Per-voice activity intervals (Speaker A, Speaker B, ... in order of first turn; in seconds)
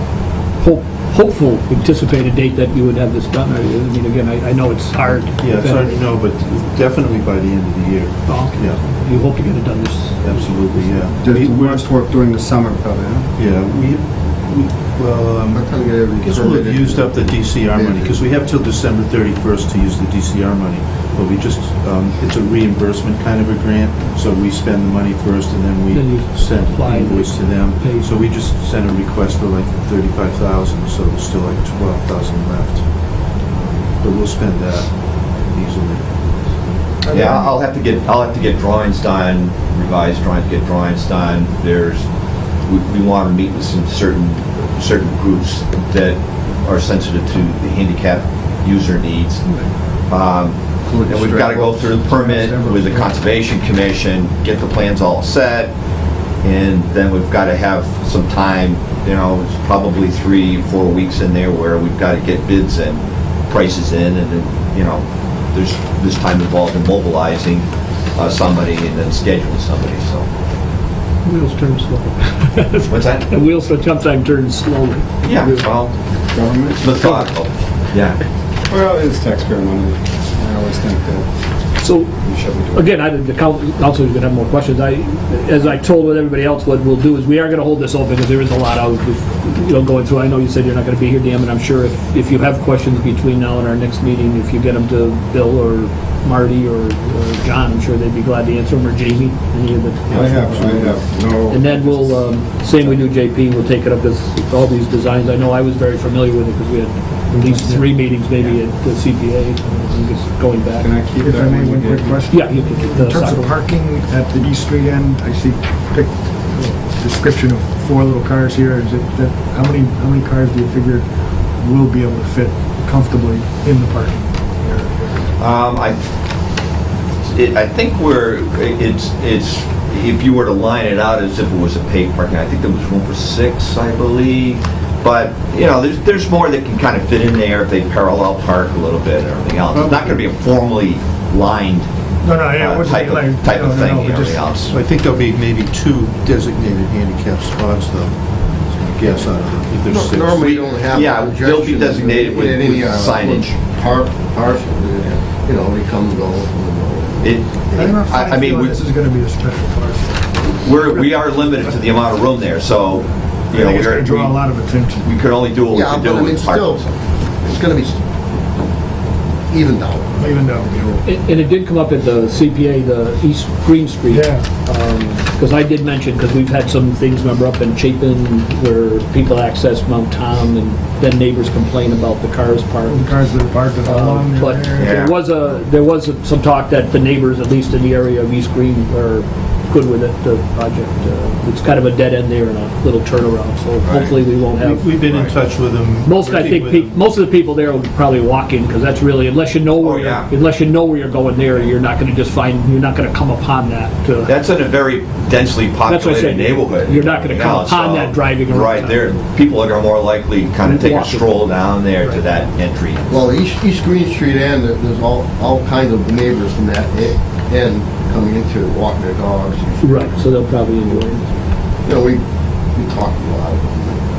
Speaker A: 0.6-5.9, 8.2-11.1, 25.9-28.2, 71.2-75.7, 81.8-82.1, 82.7-100.9, 101.5-110.9, 112.3-113.5, 171.0-183.1, 183.8-195.2, 196.0-204.4, 205.8-209.2, 210.6-212.2, 219.8-221.3
Speaker B: 5.4-8.8, 10.2-11.9, 13.3-36.8, 100.1-100.8, 139.7-140.2, 144.7-150.6, 194.6-197.0
Speaker C: 11.2-13.3, 16.3-17.1, 50.8-53.1, 76.3-76.9, 78.7-81.3, 82.2-82.9, 100.1-102.1, 110.8-112.2, 149.9-150.2, 151.5-153.5, 219.8-220.1
Speaker D: 15.5-17.0, 17.6-18.0, 111.3-111.8, 150.1-157.9, 165.7-166.8, 167.4-168.0, 169.5-170.1, 213.1-219.8, 221.8-224.0
Speaker E: 37.1-42.0, 42.6-49.4, 50.1-55.7, 56.4-70.2, 72.9-73.3, 75.2-76.0, 76.7-78.2, 125.4-126.0, 127.2-141.9, 142.5-144.7, 150.4-153.6, 157.2-158.8, 160.5-164.4, 165.0-166.9, 184.8-185.2, 199.8-200.3, 204.2-213.2
Speaker F: 107.5-107.8, 111.2-121.1, 121.6-125.3, 142.2-144.6, 157.7-160.3, 160.8-161.9, 163.5-165.1, 170.2-171.0, 174.1-174.4, 182.9-184.9